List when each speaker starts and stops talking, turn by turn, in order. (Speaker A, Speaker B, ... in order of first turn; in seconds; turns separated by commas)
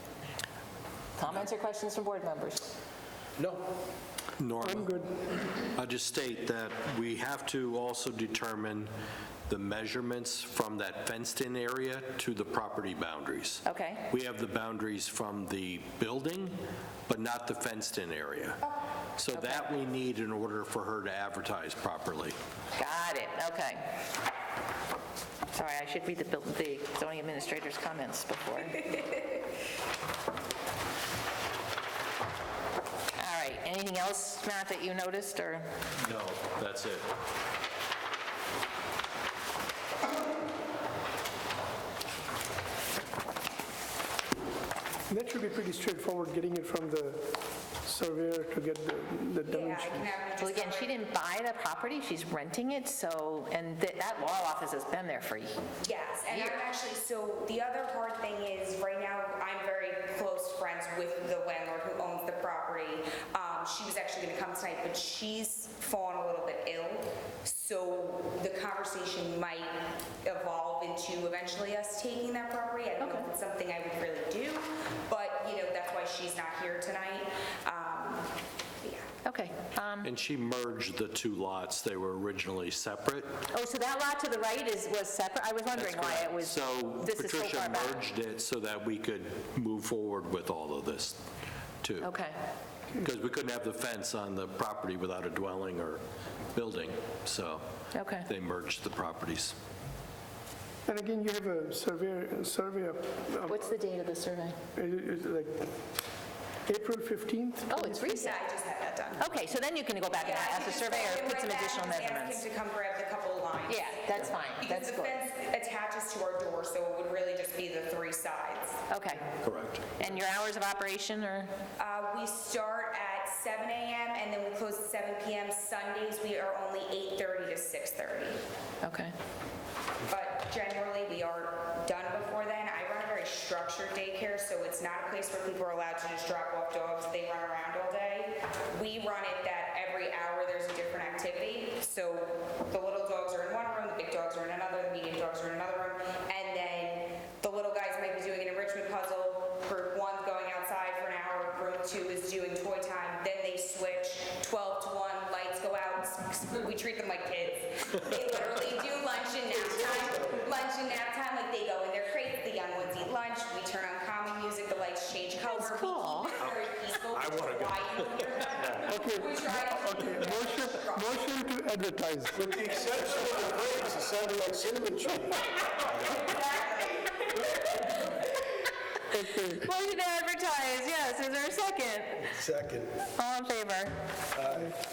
Speaker A: 1.2-2.7, Speaker B: 3.4-3.7, Speaker B: 4.4-4.9, Speaker C: 4.6-5.2, Speaker B: 5.5-8.9, Speaker B: 9.5-18.6, Speaker A: 13.7-14.1, Speaker B: 19.2-22.4, Speaker A: 19.4-19.7, Speaker A: 22.8-23.8, Speaker A: 25.5-29.1, Speaker A: 33.2-35.7, Speaker B: 36.0-37.1, Speaker C: 45.1-50.1, Speaker D: 49.5-51.0, Speaker A: 50.4-55.5, Speaker D: 55.8-79.1, Speaker A: 56.3-56.6, Speaker A: 73.0-73.2, Speaker A: 79.2-80.1, Speaker B: 80.0-83.4, Speaker A: 83.5-88.1, Speaker B: 85.7-91.2, Speaker B: 91.8-92.1, Speaker A: 92.0-92.4, Speaker B: 93.0-96.0, Speaker B: 96.5-97.7, Speaker A: 98.0-98.3, Speaker B: 98.2-99.5, Speaker C: 100.9-103.7, Speaker A: 103.5-104.5, Speaker C: 104.8-105.7, Speaker C: 106.7-108.0, Speaker A: 107.7-108.4, Speaker D: 107.9-109.3, Speaker A: 109.2-112.4, Speaker D: 110.2-118.8, Speaker A: 113.7-115.1, Speaker A: 118.9-119.3, Speaker B: 119.4-120.0, Speaker A: 120.0-121.5, Speaker D: 121.8-128.4, Speaker A: 128.8-129.1, Speaker D: 130.1-171.2, Speaker A: 165.5-166.5, Speaker B: 167.1-168.8, Speaker C: 168.8-172.4, Speaker E: 172.5-173.0, Speaker B: 172.9-173.7, Speaker E: 173.6-175.3, Speaker C: 179.1-179.6, Speaker A: 179.6-182.3, Speaker E: 182.5-182.9, Speaker A: 183.2-184.0